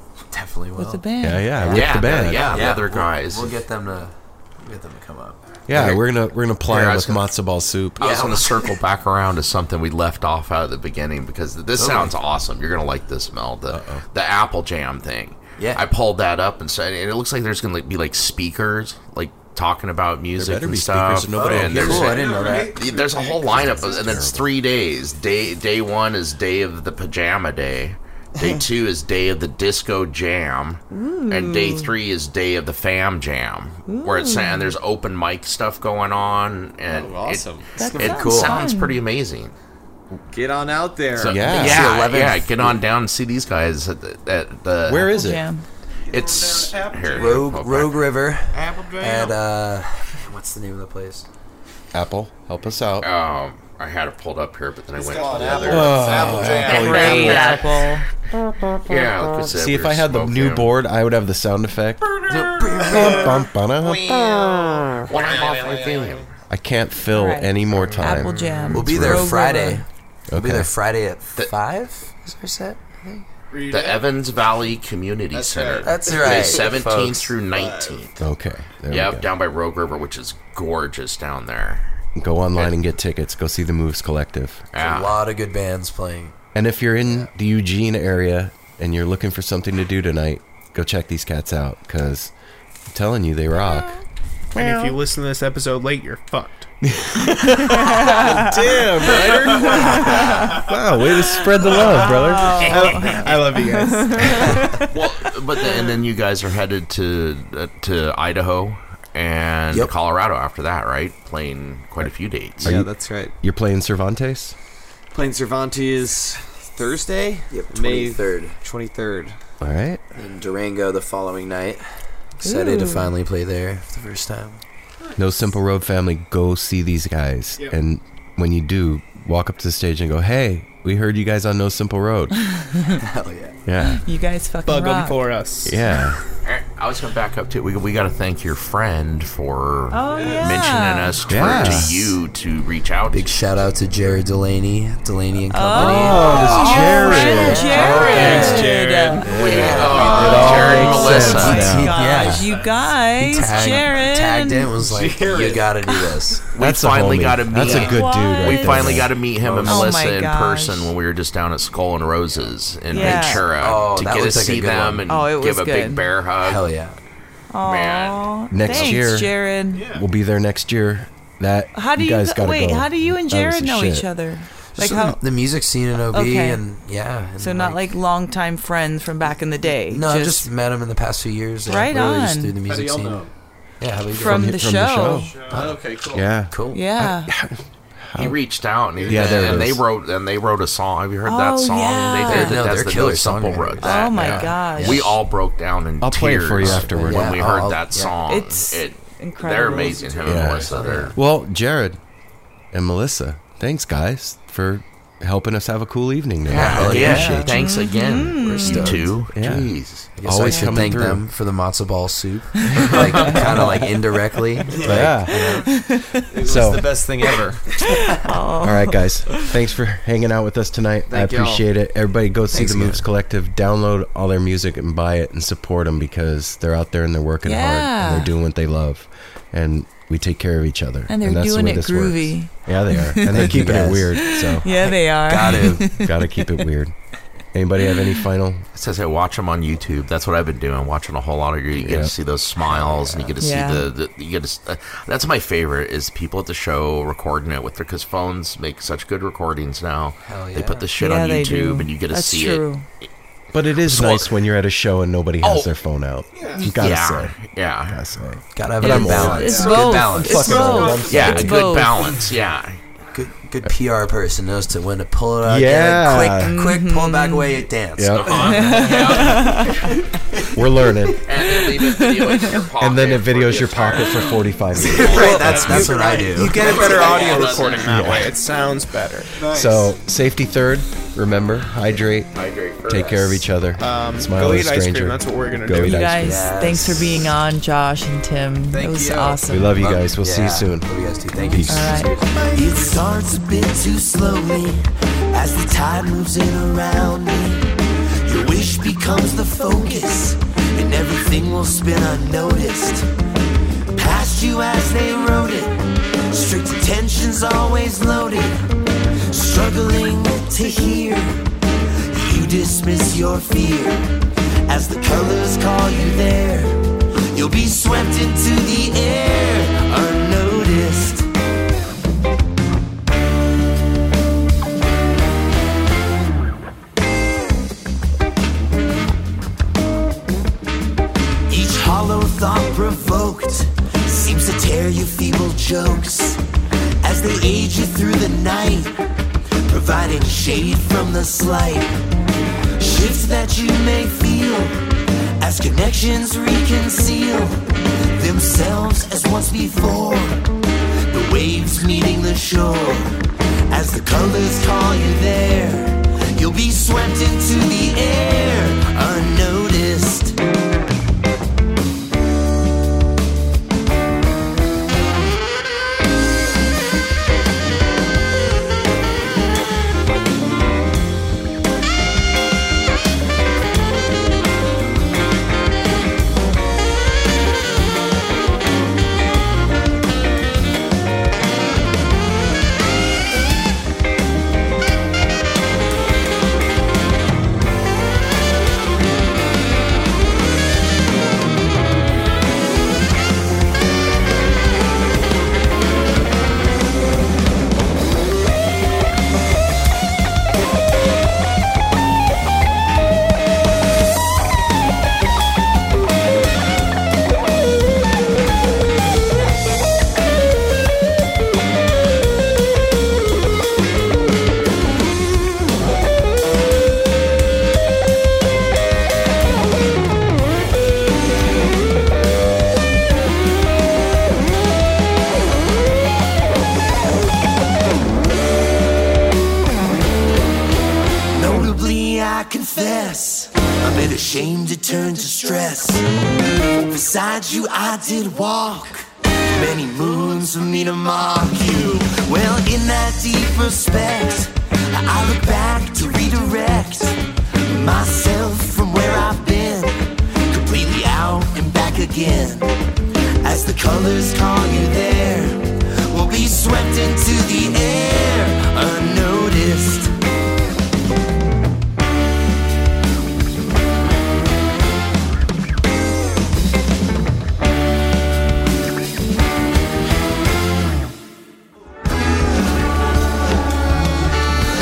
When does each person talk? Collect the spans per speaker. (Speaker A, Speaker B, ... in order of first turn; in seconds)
Speaker A: 0.3-5.4, 8.0-8.8, 11.8-12.1, 15.6-15.8, 21.3-22.8, 37.8-38.6, 41.4-42.8, 47.2-51.3, 62.3-63.4, 68.7-73.3, 75.8-77.4, 84.8-86.3, 117.5-118.6, 120.2-124.6, 132.9-133.6, 143.1-148.7, 149.3-150.6, 151.1-152.5, 153.1-156.4, 159.4-159.8, 163.0-165.1, 166.4-167.0, 174.8-177.8, 179.9-183.2, 183.8-184.5, 186.5-186.8, 192.3-195.2, 196.6-198.2, 200.5-201.2, 206.5-207.4, 208.4-209.2, 210.2-215.7, 222.5-223.1, 233.3-234.1, 234.7-236.0, 242.6-243.4, 250.2-250.9, 258.6-261.0, 263.1-268.5, 274.8-277.4, 286.2-287.3, 289.8-292.5
Speaker B: 0.8-1.6, 30.9-31.9, 33.9-34.7, 37.8-39.0, 45.1-45.6, 56.6-58.1, 67.1-69.8, 98.0-98.5, 100.2-100.4, 101.8-104.8, 122.4-123.1, 132.5-133.0, 133.8-135.2, 139.9-141.2, 145.5-149.3, 150.1-154.7, 157.7-159.0, 159.7-160.9, 162.9-163.4, 165.1-166.1, 167.5-169.9, 171.8-175.2, 176.1-176.6, 177.4-180.5, 181.7-182.6, 184.1-185.3, 186.7-187.3, 191.3-192.6, 193.8-195.1, 198.2-200.2, 207.0-209.0, 210.5-210.9, 212.6-213.4, 215.7-216.2, 217.9-219.6, 227.4-228.3, 231.1-236.7, 243.4-243.9, 251.0-252.8, 258.8-262.2, 266.4-267.6, 268.4-269.8, 271.9-272.5, 285.8-289.9, 291.7-292.1
Speaker C: 1.2-2.6, 5.7-8.2, 13.7-14.0, 20.4-22.2, 23.5-24.5, 41.2-41.9, 44.9-45.5, 51.9-53.1, 55.7-57.6, 59.5-62.2, 62.8-64.2, 66.5-69.3, 70.3-70.7, 78.2-79.3, 82.2-84.7, 86.5-92.3, 92.9-94.0, 94.5-95.0, 96.8-103.0, 112.6-114.6, 119.6-120.0, 125.2-132.3, 133.7-134.0, 135.6-136.2, 141.3-142.2, 145.8-148.5, 149.2-152.1, 156.6-159.2, 168.5-174.1, 184.1-185.4, 186.1-188.4, 189.0-189.8, 196.0-197.4, 200.2-202.0, 202.7-207.6, 209.3-211.3, 214.8-215.8, 216.4-217.0, 218.6-234.7, 235.6-236.9, 237.5-238.7, 241.8-242.1, 253.5-261.8, 265.4-266.6, 268.0-269.0, 270.5-271.2, 272.8-276.0, 277.8-278.4, 279.4-286.5, 289.5-290.9, 291.4-292.1
Speaker D: 1.7-3.6, 5.7-6.0, 6.7-7.3, 8.0-39.5, 41.2-45.1, 46.1-48.0, 53.0-57.9, 58.7-60.7, 64.0-64.4, 65.0-66.3, 73.7-78.2, 78.9-81.9, 84.7-85.2, 102.7-103.2, 104.9-112.7, 136.4-143.4, 148.1-148.5, 149.3-151.8, 156.5-166.6, 167.6-169.0, 188.2-201.2, 206.5-210.2, 238.8-252.7, 253.8-254.4, 255.4-255.7, 256.6-258.0, 261.1-262.8, 268.1-269.8, 271.2-278.1, 282.3-283.4
Speaker E: 2.3-2.7, 36.9-37.8, 40.3-41.4, 48.7-49.1, 55.0-57.4, 65.1-66.2, 75.3-76.7, 77.5-78.0, 112.6-113.3, 115.1-119.4, 155.1-155.6, 182.7-183.2, 185.5-186.2, 214.7-215.2, 216.3-217.7, 221.1-221.7, 275.9-277.7, 279.4-279.9, 288.7-289.4
Speaker F: 22.1-23.9, 46.1-47.4, 48.6-49.3, 55.0-56.3, 73.5-74.0, 75.6-75.8, 94.5-96.7, 99.0-99.8, 102.7-104.6, 134.7-135.8, 147.6-148.2, 148.7-150.8, 152.2-153.8, 154.9-155.7, 169.7-170.0, 182.7-183.2, 185.3-185.8, 256.4-256.6, 259.5-259.9, 260.8-261.1, 276.0-279.4, 283.8-286.1
Speaker G: 292.5-303.1, 303.9-308.6, 309.3-311.5, 312.1-321.3, 331.5-336.4, 337.0-339.0, 339.7-342.0, 342.8-344.8, 345.4-350.4, 351.1-353.1, 353.7-360.4, 431.3-436.1, 436.8-452.7, 453.4-460.1